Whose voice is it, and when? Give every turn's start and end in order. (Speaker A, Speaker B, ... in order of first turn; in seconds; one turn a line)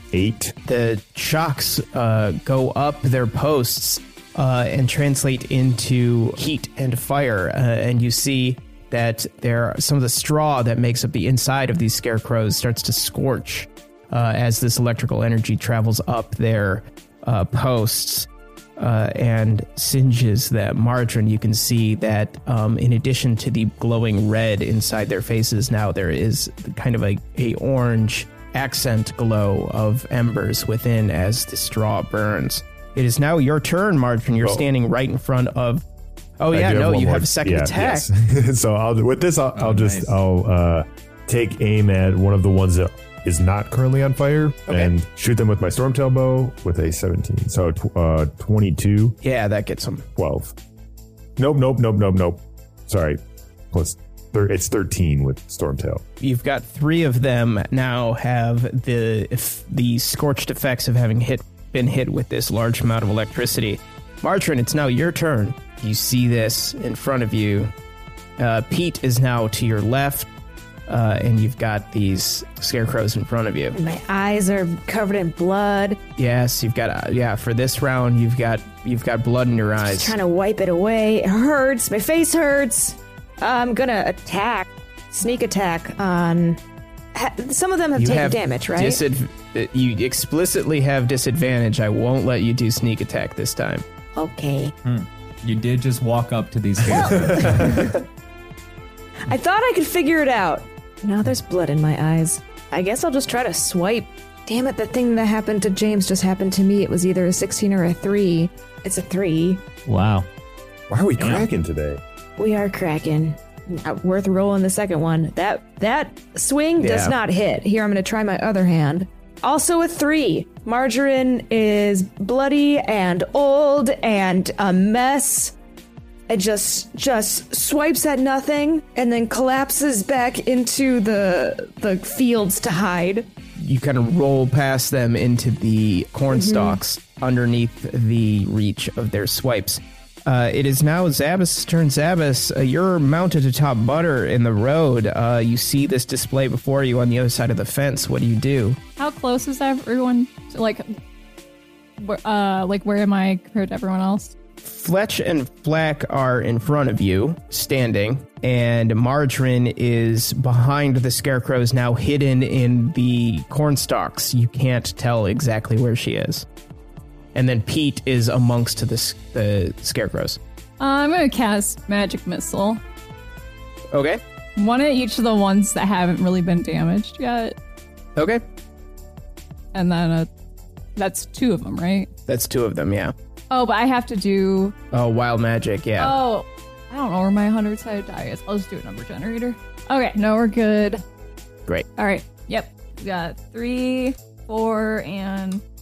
Speaker A: 0.1-0.5
Speaker B: 0.6-35.8
Speaker A: 34.4-34.6
Speaker B: 36.4-38.1
Speaker A: 36.5-49.2
Speaker C: 39.5-40.1
Speaker B: 49.2-50.0
Speaker A: 50.1-50.5
Speaker A: 51.4-53.2
Speaker A: 53.7-56.0
Speaker B: 56.2-67.7
Speaker B: 68.4-70.3
Speaker B: 70.9-73.8
Speaker D: 73.7-76.0
Speaker B: 76.2-80.1
Speaker D: 79.8-86.6
Speaker D: 87.1-89.0
Speaker B: 88.0-93.8
Speaker D: 94.2-94.7
Speaker C: 94.8-97.8
Speaker D: 96.9-98.0
Speaker D: 99.2-109.6
Speaker C: 109.8-110.3
Speaker A: 110.9-112.0
Speaker C: 111.2-111.5
Speaker D: 112.4-125.5
Speaker B: 116.8-117.2
Speaker D: 126.3-133.3
Speaker B: 133.6-148.8
Speaker D: 136.3-136.8
Speaker E: 149.0-150.9
Speaker E: 152.0-154.3
Speaker B: 154.6-166.4
Speaker B: 167.3-170.4
Speaker E: 170.8-172.8
Speaker B: 173.9-174.2
Speaker E: 174.6-177.6
Speaker B: 178.2-178.4
Speaker E: 179.7-180.3
Speaker E: 180.9-182.1
Speaker B: 182.3-183.1
Speaker E: 183.5-184.8
Speaker B: 184.9-186.2
Speaker E: 186.0-191.0
Speaker E: 191.9-195.6